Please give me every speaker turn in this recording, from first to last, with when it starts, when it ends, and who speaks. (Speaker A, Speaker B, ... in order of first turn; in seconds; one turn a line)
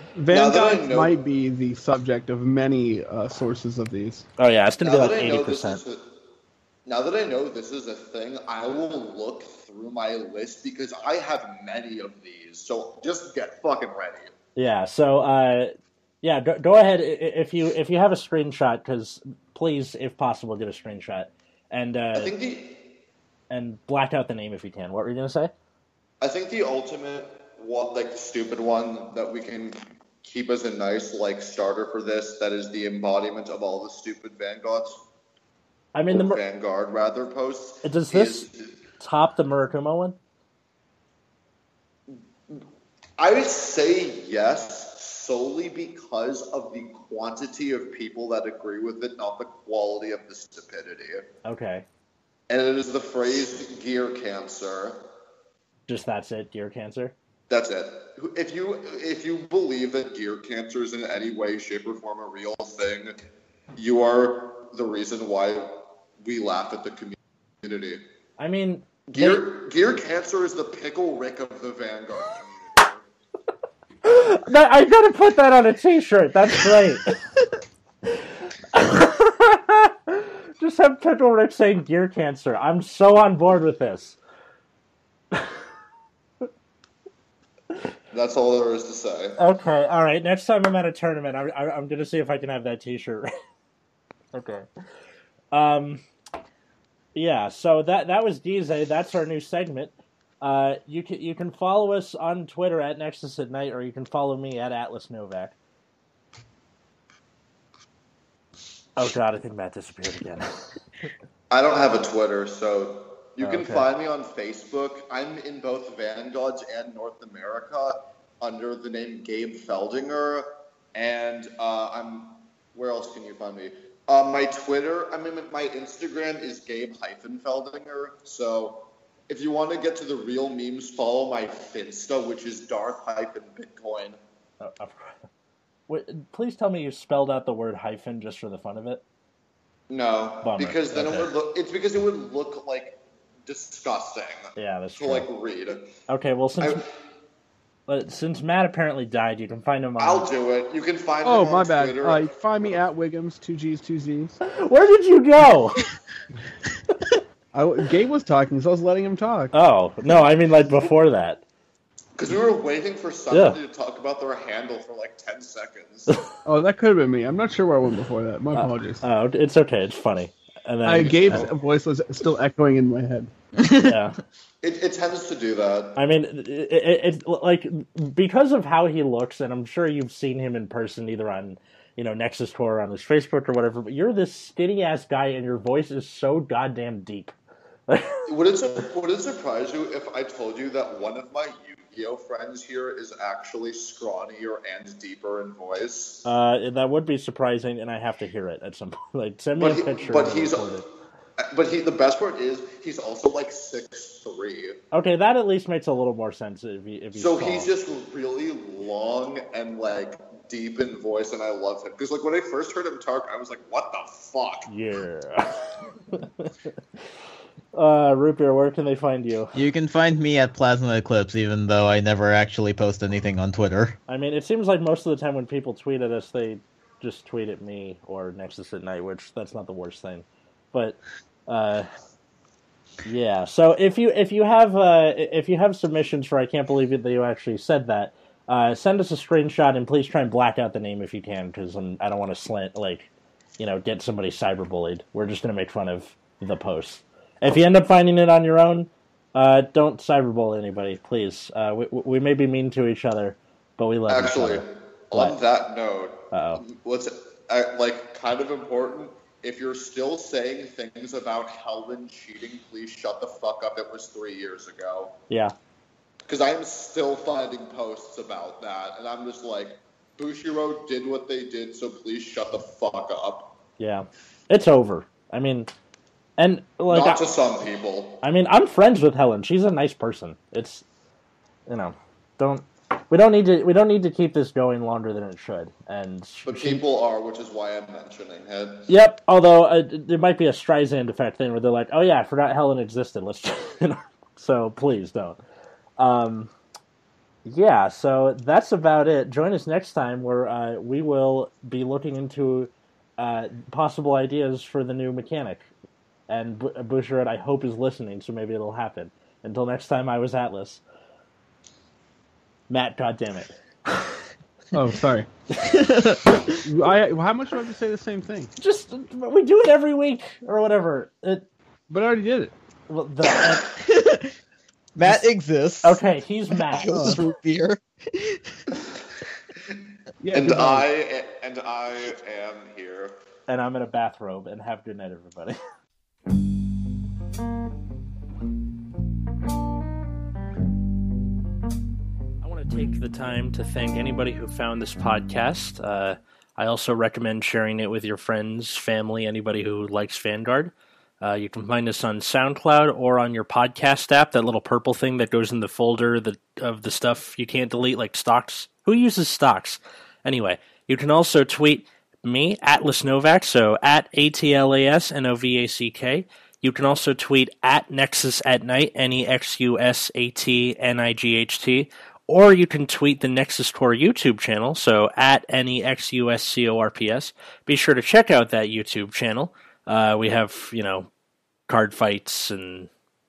Speaker A: 0.1-4.2
Speaker B: 0.3-1.1
Speaker C: 4.4-5.8
Speaker B: 4.8-6.1
Speaker B: 6.8-14.3
Speaker C: 14.6-22.3
Speaker B: 22.1-22.9
Speaker C: 23.5-25.5
Speaker B: 26.2-35.0
Speaker C: 35.9-36.4
Speaker B: 36.1-38.8
Speaker C: 37.8-40.2
Speaker B: 42.1-42.6
Speaker B: 43.2-51.3
Speaker C: 51.4-51.9
Speaker B: 52.5-55.1
Speaker C: 55.9-57.1
Speaker B: 57.5-63.2
Speaker B: 63.7-68.0
Speaker C: 68.4-69.5
Speaker B: 69.1-73.1
Speaker C: 74.0-77.2
Speaker C: 78.1-84.2
Speaker B: 88.1-89.4
Speaker C: 89.4-93.3
Speaker C: 94.3-94.7
Speaker C: 95.5-96.0
Speaker C: 97.1-105.5
Speaker C: 109.0-110.6
Speaker B: 111.5-134.2
Speaker C: 113.4-113.9
Speaker C: 134.6-135.1
Speaker C: 135.9-139.0
Speaker B: 139.9-146.0
Speaker C: 140.4-141.3
Speaker C: 144.6-145.3
Speaker C: 146.1-146.8
Speaker C: 147.9-150.3
Speaker B: 150.0-152.3
Speaker A: 151.2-154.4
Speaker C: 154.4-155.8
Speaker A: 157.5-159.5
Speaker C: 159.5-161.4
Speaker B: 162.2-166.1
Speaker C: 163.3-163.6
Speaker A: 166.4-169.0
Speaker C: 168.5-171.5
Speaker A: 170.8-173.3
Speaker B: 171.2-171.5
Speaker D: 173.6-174.0
Speaker C: 173.8-174.2
Speaker B: 174.6-176.0
Speaker C: 175.9-187.3
Speaker C: 187.9-188.3
Speaker B: 188.3-196.3
Speaker C: 196.2-200.8
Speaker B: 199.6-200.8
Speaker B: 201.4-204.8
Speaker C: 204.9-207.7
Speaker B: 207.1-214.7
Speaker C: 214.7-216.5
Speaker C: 217.7-219.5
Speaker D: 219.5-224.0
Speaker C: 224.1-231.9
Speaker C: 233.0-255.3
Speaker B: 254.1-265.2
Speaker C: 256.3-256.6
Speaker B: 266.3-273.6
Speaker C: 273.8-275.7
Speaker C: 276.4-277.2
Speaker B: 276.9-278.2
Speaker C: 278.2-280.8
Speaker C: 281.7-286.8
Speaker B: 286.4-288.9
Speaker C: 288.9-295.4
Speaker C: 296.0-296.5
Speaker C: 297.4-305.7
Speaker C: 306.3-310.8
Speaker C: 312.7-313.5
Speaker A: 314.7-315.3
Speaker D: 315.6-316.6
Speaker A: 316.6-318.5
Speaker C: 318.6-321.4
Speaker A: 321.9-322.5
Speaker C: 322.9-323.7
Speaker D: 323.7-324.3
Speaker D: 324.9-326.0
Speaker C: 325.8-327.1
Speaker D: 326.7-328.6
Speaker A: 326.9-327.2
Speaker A: 330.2-330.9
Speaker B: 330.3-333.1
Speaker C: 333.5-335.6
Speaker C: 342.4-381.1
Speaker C: 381.7-382.9